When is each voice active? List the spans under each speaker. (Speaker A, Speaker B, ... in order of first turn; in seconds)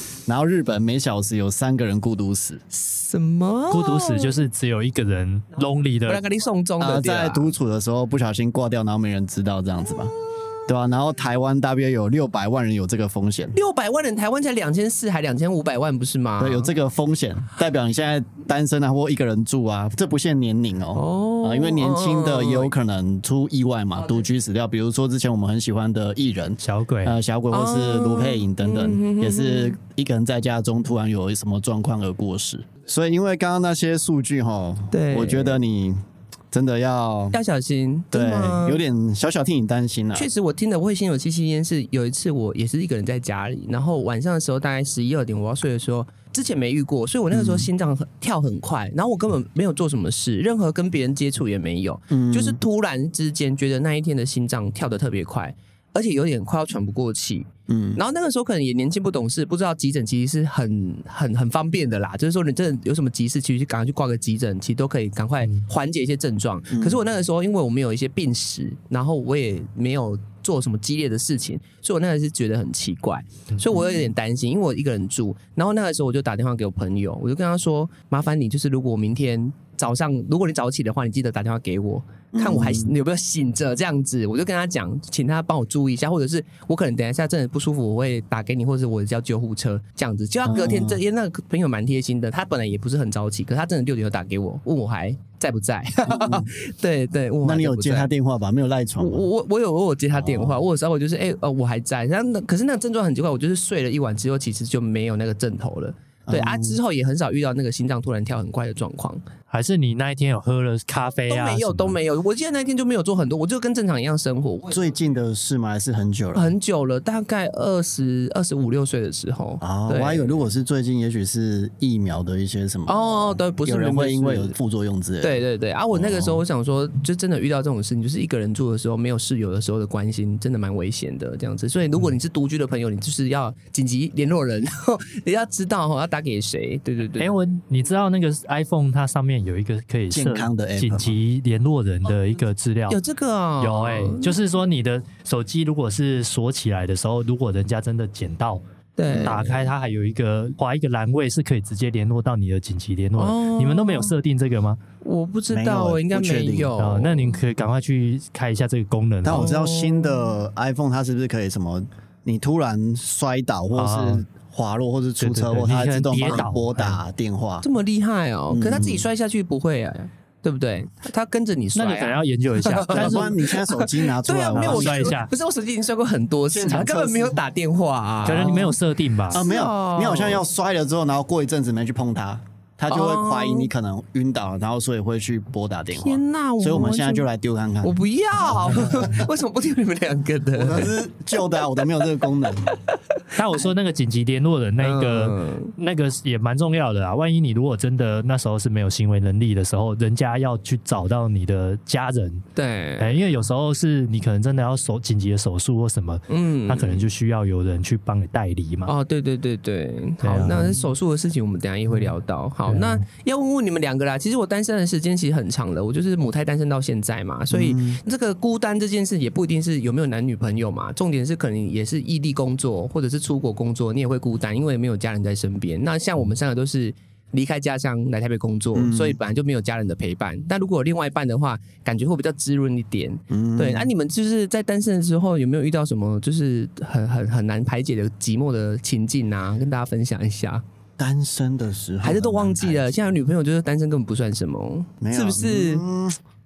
Speaker A: 0.3-2.6, 6.8-10.1, 10.7-13.6, 16.4-36.0, 36.5-37.4, 38.1-40.3, 47.3-47.7, 52.1-52.6, 57.7-58.0, 66.7-67.0, 73.7-74.0, 82.3-82.9, 90.5-91.0, 96.1-96.5, 97.4-99.3, 100.1-100.6, 106.3-106.8, 114.7-116.5, 119.6-125.4, 125.9-126.4, 140.1-141.2, 149.1-149.4, 155.5-156.8, 159.2-167.7, 168.5-169.1, 172.9-175.2, 176.5-177.4, 178.3-178.7, 179.3-189.2, 190.6-192.7, 217.5-218.0, 228.8-229.2, 233.3-233.9, 241.0-243.1, 245.0-246.2
Speaker B: 2.7-4.4, 6.1-7.5, 13.5-16.7, 20.9-22.7, 27.5-29.8, 34.9-35.6, 37.3-38.8, 40.1-98.1, 99.0-109.2, 111.3-114.9, 116.3-120.3, 122.9-124.5, 125.2-137.3, 142.9-144.4, 149.0-149.6, 153.2-154.1, 155.0-157.4, 159.3-160.3, 167.6-178.8, 179.3-180.4, 182.9-183.7, 186.0-187.3, 187.8-190.9, 192.7-193.0, 194.8-195.7, 202.6-203.1, 206.3-207.1, 208.9-240.6, 242.0-245.9
Speaker C: 3.7-6.2, 26.6-27.2, 109.5-112.0, 137.2-143.0, 143.6-148.6, 149.2-154.8, 156.8-159.5, 163.8-164.2, 165.2-167.0, 171.8-173.3, 174.5-175.3, 178.2-179.4, 193.3-202.4, 203.0-208.9, 210.2-210.8, 212.7-213.0